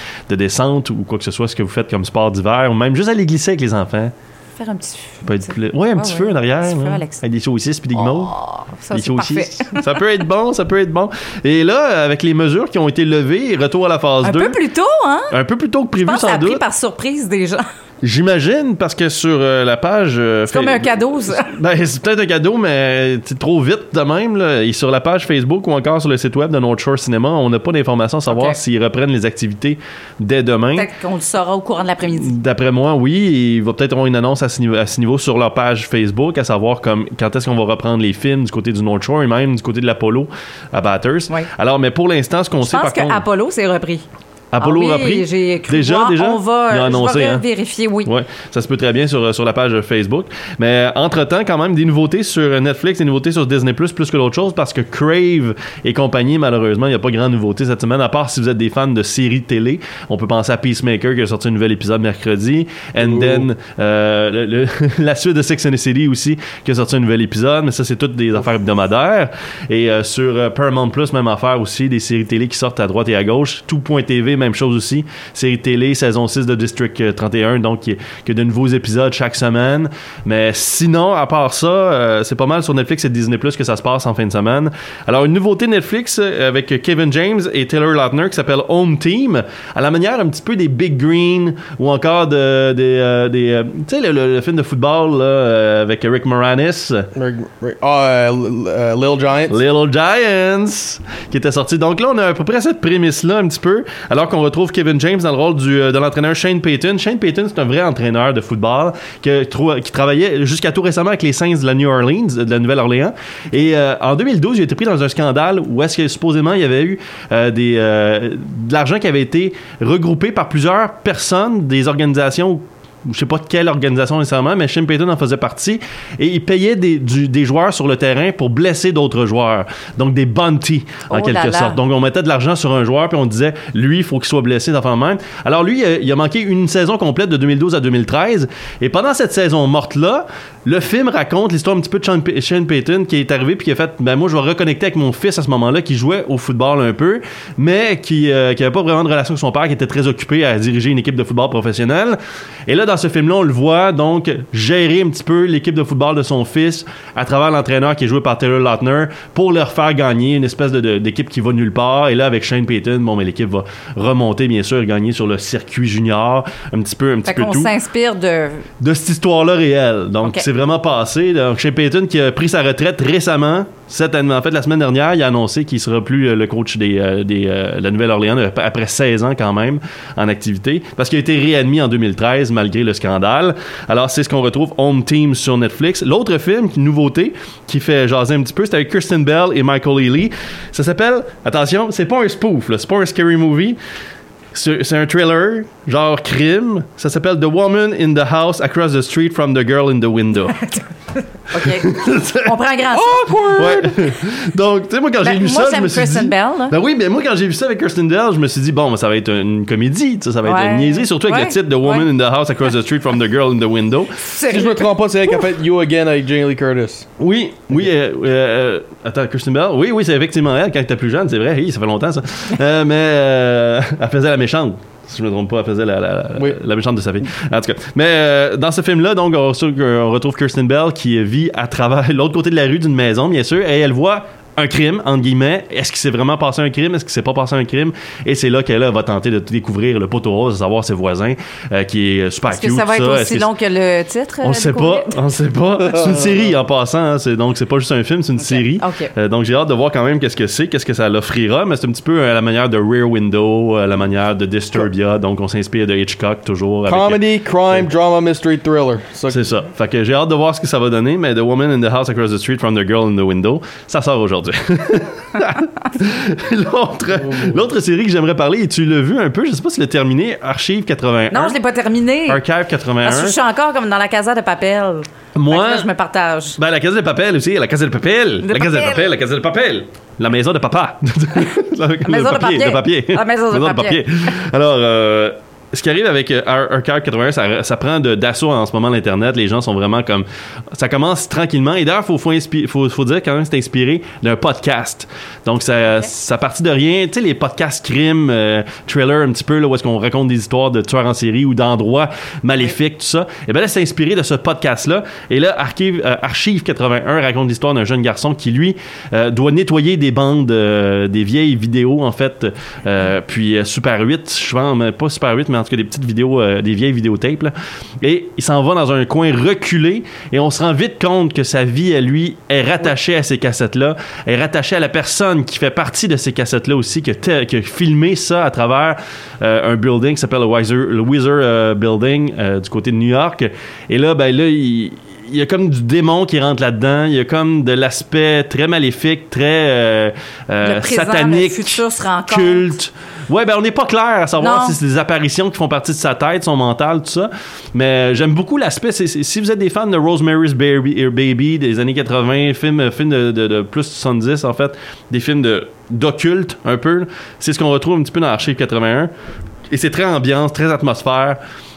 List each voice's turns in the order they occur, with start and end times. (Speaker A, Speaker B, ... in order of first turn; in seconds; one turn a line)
Speaker A: 0.3-4.1
Speaker B: 4.6-7.2
Speaker A: 5.2-8.3
Speaker B: 7.9-10.0
Speaker A: 8.9-14.6
Speaker B: 14.2-15.3
Speaker A: 15.3-16.6
Speaker B: 16.0-17.6
Speaker A: 18.0-30.9
Speaker B: 20.5-21.5
Speaker B: 28.3-28.6
Speaker B: 30.7-32.3
Speaker A: 32.1-43.2
Speaker B: 42.6-44.0
Speaker A: 44.5-47.4
Speaker B: 44.6-48.1
Speaker A: 48.0-97.1
Speaker C: 97.1-99.6
Speaker A: 99.5-167.7
Speaker B: 131.1-131.8
Speaker B: 167.2-168.7
Speaker A: 168.8-193.8
Speaker A: 194.5-200.7
Speaker B: 201.5-203.4
Speaker A: 201.5-202.5
Speaker C: 202.9-203.9
Speaker A: 203.5-214.4
Speaker B: 205.2-206.7
Speaker B: 210.4-212.1
Speaker B: 214.2-215.4
Speaker C: 214.4-217.1
Speaker A: 217.2-243.5
Speaker B: 242.5-245.2
Speaker A: 244.4-257.9
Speaker B: 248.4-249.1
Speaker C: 256.9-259.4
Speaker A: 259.3-271.6
Speaker C: 267.2-267.6
Speaker B: 271.3-272.4
Speaker A: 272.3-273.4
Speaker B: 273.0-276.6
Speaker A: 275.3-275.9
Speaker A: 276.6-359.1
Speaker B: 278.4-279.1
Speaker B: 282.0-284.0
Speaker B: 295.8-296.1
Speaker B: 340.6-342.7
Speaker B: 344.4-344.8
Speaker A: 359.7-361.4